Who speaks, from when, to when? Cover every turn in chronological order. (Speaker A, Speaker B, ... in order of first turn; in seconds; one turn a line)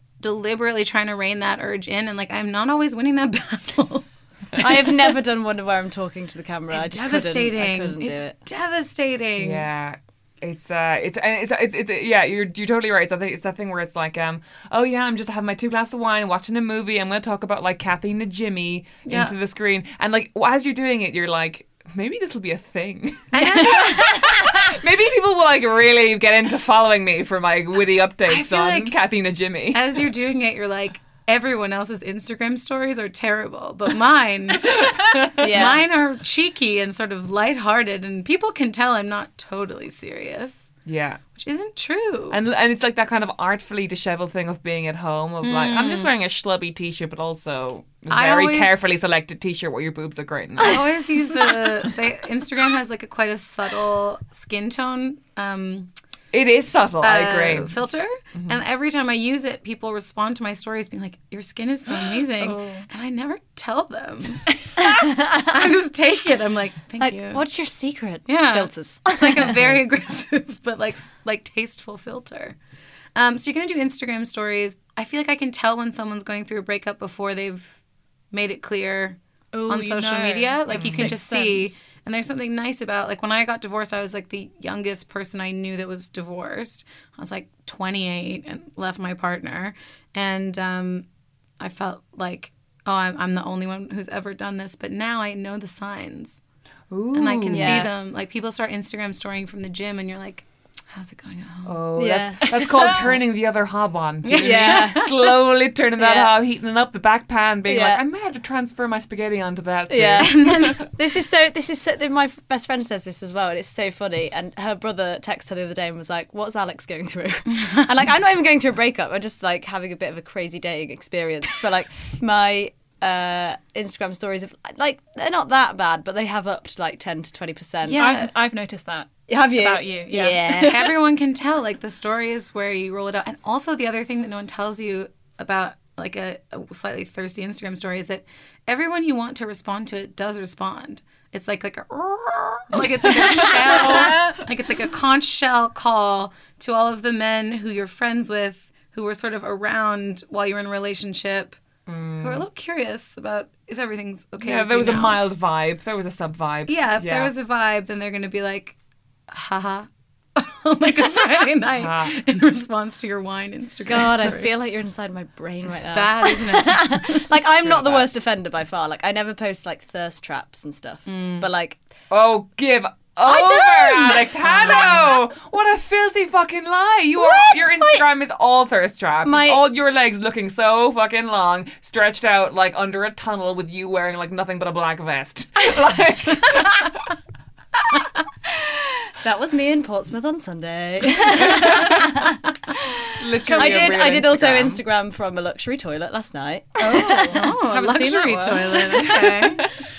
Speaker A: 0.2-4.0
Speaker A: 4.6-5.1
Speaker B: 4.6-8.4
Speaker A: 6.7-9.7
Speaker C: 9.4-30.1
Speaker A: 19.1-19.4
Speaker A: 23.3-24.3
Speaker A: 28.3-29.0
Speaker A: 29.7-40.7
Speaker C: 34.7-35.5
Speaker B: 35.4-35.9
Speaker C: 40.9-41.2
Speaker A: 41.4-42.4
Speaker C: 42.3-50.9
Speaker A: 45.4-46.1
Speaker A: 48.1-48.8
Speaker A: 50.6-55.9
Speaker C: 56.3-57.8
Speaker A: 57.0-67.5
Speaker D: 62.4-62.7
Speaker B: 64.8-65.6
Speaker B: 67.0-69.8
Speaker A: 68.3-72.6
Speaker A: 73.2-77.8
Speaker A: 78.3-79.2
Speaker D: 79.5-81.8
Speaker A: 79.7-91.0
Speaker C: 80.8-81.2
Speaker A: 91.6-96.4
Speaker C: 96.9-97.9
Speaker A: 97.1-101.9
Speaker B: 97.5-97.9
Speaker C: 101.7-110.9
Speaker B: 101.9-103.1
Speaker A: 104.2-105.1
Speaker B: 104.4-105.3
Speaker B: 106.0-106.4
Speaker B: 107.6-108.0
Speaker B: 109.9-128.2
Speaker A: 110.3-110.8
Speaker A: 127.8-128.3
Speaker D: 128.0-130.7
Speaker B: 129.3-131.0
Speaker A: 130.6-151.6
Speaker C: 142.7-144.4
Speaker C: 151.9-152.4
Speaker A: 152.2-155.3
Speaker C: 154.4-157.3
Speaker A: 156.7-158.8
Speaker A: 159.3-164.5
Speaker C: 161.8-162.2
Speaker B: 163.8-171.8
Speaker A: 165.7-167.2
Speaker C: 167.6-168.1
Speaker A: 171.1-171.5
Speaker C: 172.1-187.0
Speaker B: 173.2-175.2
Speaker B: 177.2-178.1
Speaker B: 179.2-179.7
Speaker B: 189.2-197.5
Speaker C: 191.3-192.1
Speaker C: 193.1-194.8
Speaker D: 193.5-194.0
Speaker A: 196.8-199.6
Speaker D: 196.9-199.1